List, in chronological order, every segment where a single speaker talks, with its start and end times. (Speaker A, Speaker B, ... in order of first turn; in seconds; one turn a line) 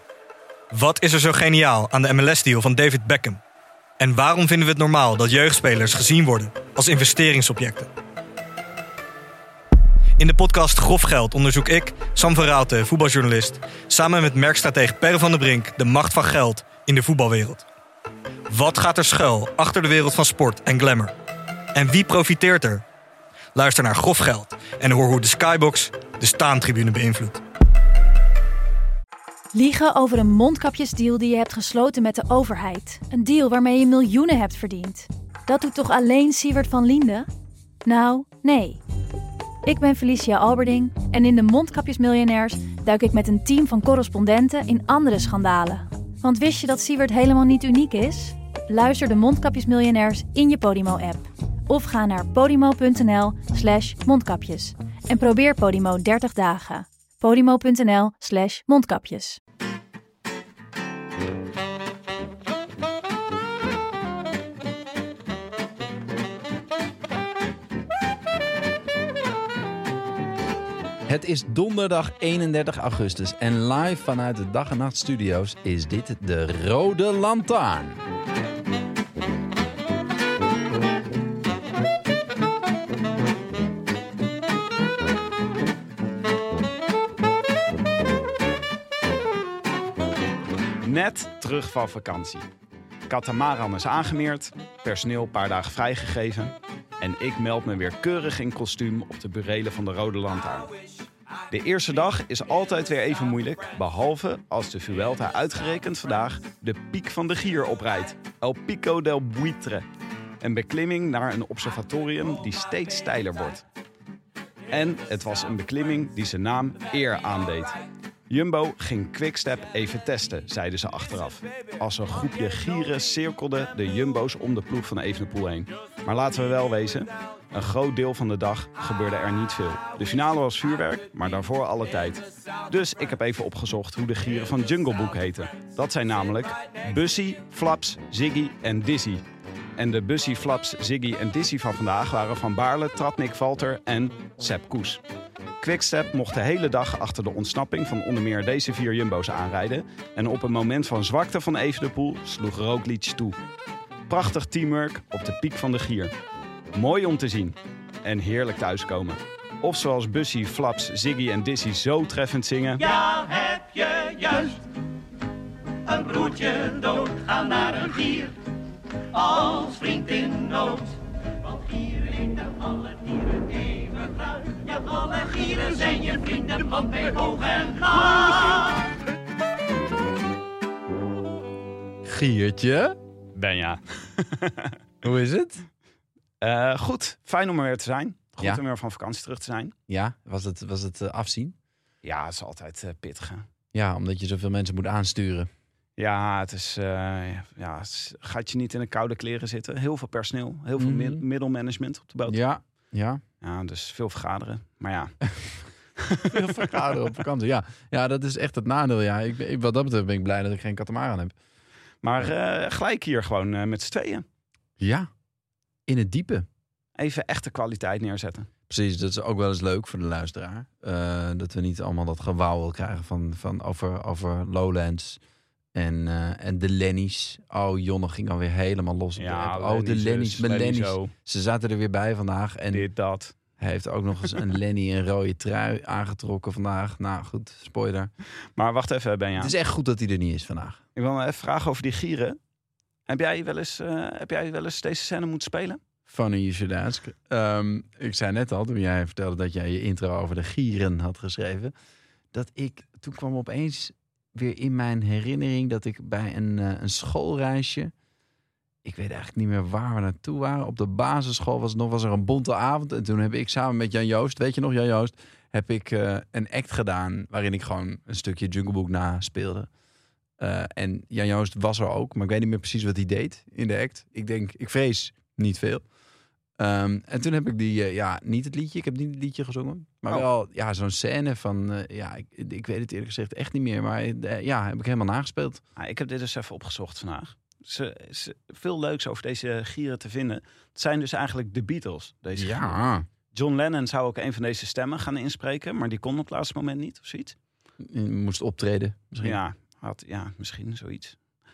Speaker A: 0.7-3.4
Speaker A: 4.0-7.9
Speaker A: 10.2-17.6
Speaker A: 18.5-21.1
Speaker A: 21.7-22.8
Speaker A: 23.6-27.4
Speaker B: 29.5-37.3
Speaker B: 37.9-38.8
Speaker B: 39.6-59.4
Speaker C: 71.1-78.0
Speaker D: 90.8-92.5
Speaker D: 93.1-100.7
Speaker D: 101.5-109.8
Speaker D: 110.4-113.7
Speaker D: 114.7-117.8
Speaker D: 118.3-139.2
Speaker D: 139.8-145.0
Speaker D: 145.6-153.4
Speaker D: 154.1-156.1
Speaker D: 156.7-164.6
Speaker D: 166.2-167.6
Speaker E: 167.2-167.7
Speaker E: 169.6-170.7
Speaker E: 174.8-177.8
Speaker C: 182.0-183.0
Speaker D: 183.3-184.8
Speaker C: 185.0-185.7
Speaker D: 186.4-189.7
Speaker C: 189.9-191.6
Speaker D: 192.0-193.5
Speaker C: 193.7-195.5
Speaker D: 196.0-202.4
Speaker C: 200.8-201.2
Speaker C: 202.3-203.2
Speaker D: 203.4-205.2
Speaker D: 206.0-206.9
Speaker C: 206.2-211.3
Speaker D: 212.0-214.3
Speaker C: 214.8-215.1
Speaker C: 215.9-216.5
Speaker D: 217.0-218.5
Speaker C: 218.7-225.2
Speaker C: 225.7-232.9
Speaker D: 229.2-231.1
Speaker D: 232.7-233.3
Speaker C: 233.6-238.1
Speaker D: 238.6-239.6
Speaker C: 239.4-240.8
Speaker D: 240.9-242.4
Speaker D: 243.1-245.8
Speaker C: 246.1-251.7
Speaker C: 252.3-257.9
Speaker C: 258.8-269.7
Speaker C: 270.4-275.8
Speaker C: 276.6-285.6
Speaker D: 285.8-292.8
Speaker C: 292.4-293.1
Speaker D: 293.3-297.4
Speaker C: 297.8-299.4
Speaker D: 299.2-301.2